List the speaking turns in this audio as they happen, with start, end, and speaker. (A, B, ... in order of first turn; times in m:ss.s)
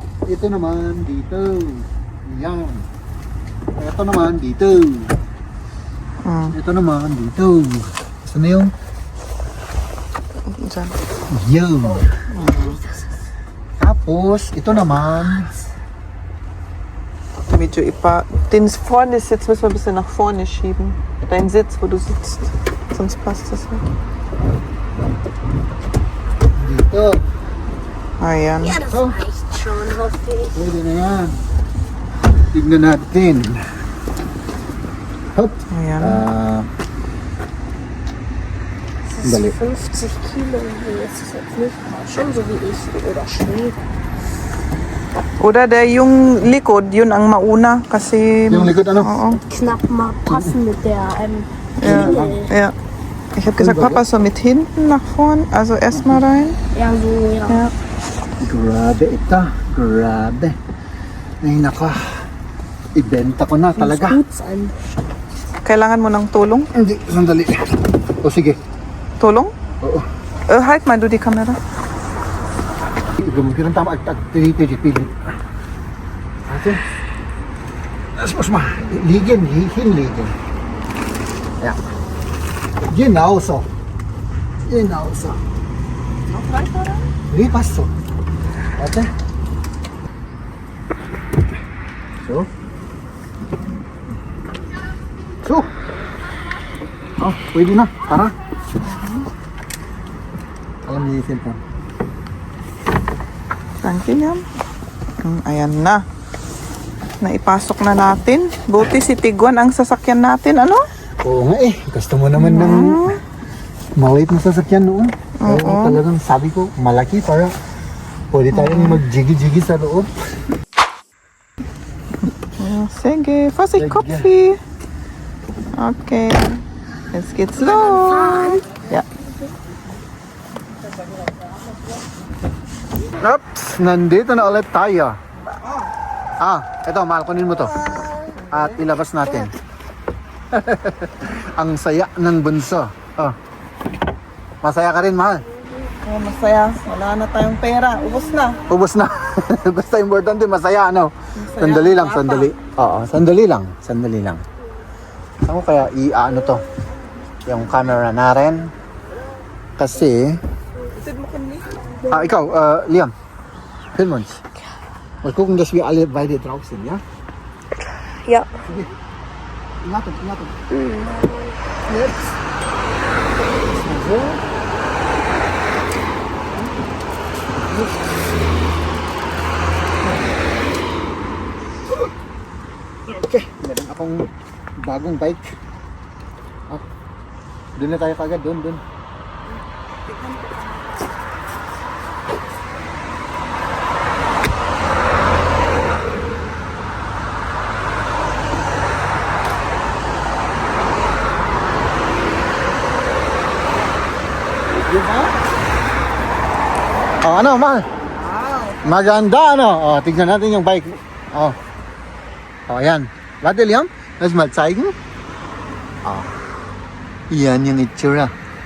0:00.2-0:02.9 A
0:03.8-0:05.1 A
0:06.2-0:06.6 B
0:06.5-0:08.7 A
0:10.5-0:11.0 B
0:11.3-0:12.1 A
0:12.3-0:12.8 B
0:13.8-0:15.5 A
0:17.5-0:23.8 B
0:26.5-0:27.2 A
0:28.2-0:28.8 B
0:28.6-0:30.5 C
0:28.8-0:29.2 A
0:30.5-0:31.4 A
0:32.5-0:33.6 A
0:35.3-0:36.7 A
0:35.7-0:36.2 B
0:39.1-0:43.8 C
0:39.2-0:39.5 A
0:45.4-0:49.4 B
0:48.5-0:49.1 A
0:49.3-0:52.5 C
0:51.8-0:52.7 B
0:51.8-0:52.4 A
0:53.4-0:56.6 B
0:53.5-0:54.0 A
0:56.7-0:57.7 C
0:58.4-1:00.6 A
1:01.4-1:02.2 A
1:02.9-1:04.2 A
1:03.8-1:04.8 C
1:05.6-1:06.7 B
1:06.7-1:08.6 A
1:09.2-1:09.5 B
1:10.5-1:11.6 B
1:13.2-1:15.2 A
1:16.4-1:16.8 A
1:18.2-1:20.3 A
1:22.9-1:23.7 A
1:24.6-1:25.4 A
1:26.3-1:27.1 B
1:27.3-1:27.9 A
1:28.8-1:29.1 A
1:32.2-1:32.5 A
1:35.4-1:35.7 A
1:37.2-1:38.3 A
1:38.8-1:39.3 B
1:40.8-1:41.6 A
1:43.8-1:44.4 B
1:45.2-1:46.0 B
1:47.2-1:50.8 B
1:51.2-1:53.1 A
1:52.4-1:53.2 B
1:54.0-1:57.5 A
1:55.4-1:56.0 B
1:58.3-2:00.1 A
1:58.5-1:59.0 B
2:02.6-2:04.6 B
2:03.8-2:04.3 A
2:05.8-2:06.6 B
2:07.1-2:09.1 B
2:07.6-2:08.6 C
2:13.2-2:15.2 A
2:15.4-2:15.9 B
2:16.4-2:17.8 A
2:18.3-2:18.7 B
2:18.5-2:19.5 A
2:20.5-2:23.4 A
2:24.6-2:25.4 A
2:26.0-2:28.6 B
2:28.7-2:34.4 A
2:31.4-2:32.5 B
2:35.4-2:36.6 A
2:37.4-2:38.7 A
2:39.8-2:40.4 A
2:41.0-2:41.8 B
2:42.1-2:43.1 A
2:43.9-2:44.4 A
2:45.2-2:47.0 A
2:48.2-2:48.7 C
2:48.6-2:48.9 A
2:49.8-2:50.6 A
2:50.7-2:51.6 C
2:53.5-2:54.4 A
2:56.5-2:56.8 A
2:57.5-2:57.9 A
3:03.0-3:04.3 A
3:04.8-3:05.6 A
3:07.8-3:08.8 A
3:10.1-3:10.8 B
3:24.8-3:25.3 A
3:27.2-3:27.9 A
3:28.1-3:29.1 B
3:28.8-3:31.6 A
3:32.7-3:35.0 A
3:36.0-3:36.3 A
3:37.3-3:38.3 A